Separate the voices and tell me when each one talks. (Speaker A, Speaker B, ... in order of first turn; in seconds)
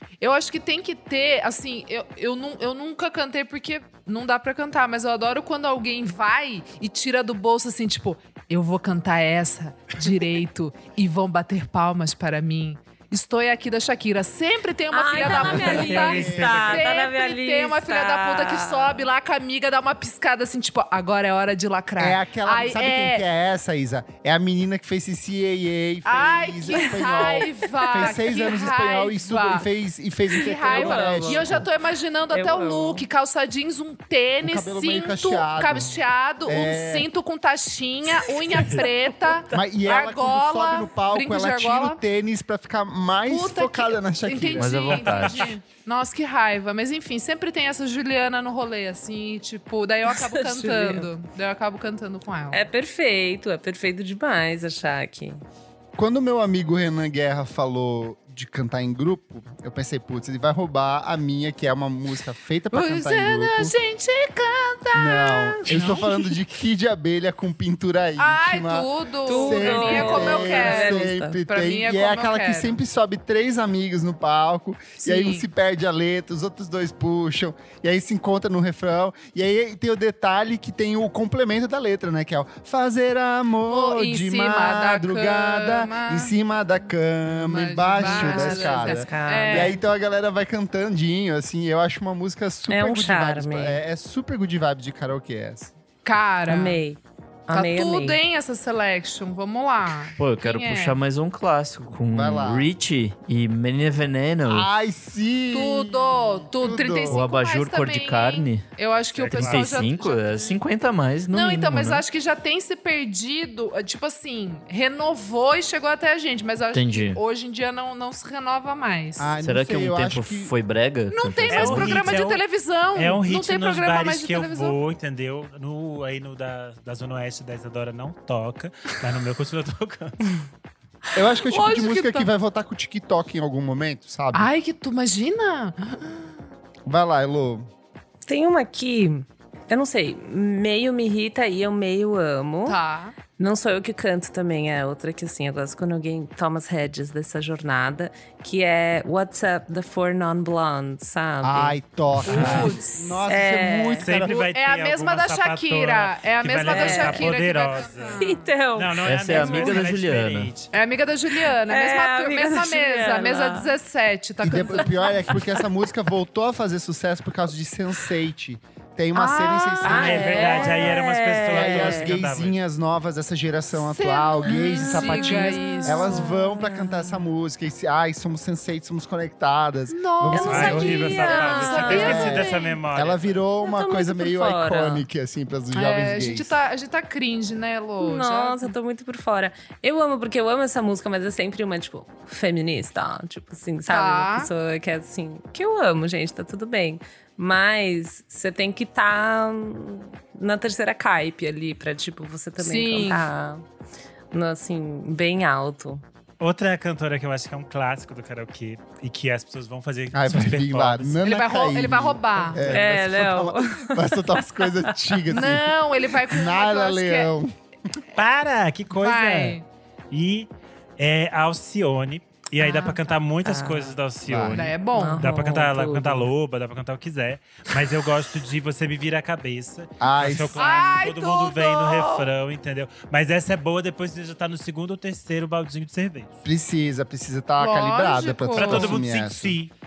Speaker A: 0.2-23.2, 26.1-29.7, 30.3-42.0, 43.3-52.7, 62.7-66.3, 68.2-72.8, 75.0-75.5, 83.7-86.3, 87.3-89.8, 96.0-96.8, 97.5-101.0, 105.5-110.6, 111.3-119.4, 121.1-124.8, 131.2-132.3, 134.3-136.3, 142.7-143.2, 152.2-152.9, 154.2-158.5, 160.7-165.4, 169.1-170.9, 173.8-176.3, 179.9-182.8, 185.7-188.8, 193.9-194.5, 202.6-203.3, 211.2-212.8, 215.3-217.3, 218.9-219.6, 222.6-223.0, 224.5-225.2, 230.6-232.3, 237.6-239.0
Speaker B: 14.9-19.1, 30.6-31.6, 32.3-33.1, 50.1-51.1, 52.5-55.4, 69.2-71.4, 88.0-89.8, 92.7-93.8, 96.5-98.2, 138.3-142.8, 143.4-151.8, 152.3-154.1, 156.7-157.3, 158.2-159.8, 161.4-163.7, 169.8-172.1, 174.5-177.2, 180.3-182.4, 183.6-185.1, 188.0-203.7, 204.3-206.0, 212.7-214.9, 223.4-224.0, 224.9-226.3
Speaker C: 15.2-16.9, 44.9-45.5, 109.2-109.9, 121.5-130.3, 152.3-152.7, 154.0-160.7, 169.8-172.6, 180.4-183.4, 206.4-211.2, 212.5-212.9, 218.2-236.3, 238.6-239.7
Speaker D: 15.5-16.8, 22.0-31.7, 34.4-37.1, 39.5-45.0, 56.0-63.7, 64.9-95.7, 102.1-102.7, 104.5-107.2, 119.2-120.5, 131.2-134.5, 136.9-137.7, 151.4-154.4, 164.4-170.9, 171.5-181.1, 181.7-186.5, 210.1-218.0, 224.3-224.7, 230.0-230.6, 236.4-239.6
Speaker E: 44.6-45.5, 100.2-104.7, 107.1-108.7, 109.3-112.0, 116.7-117.2, 119.4-122.2, 159.0-160.5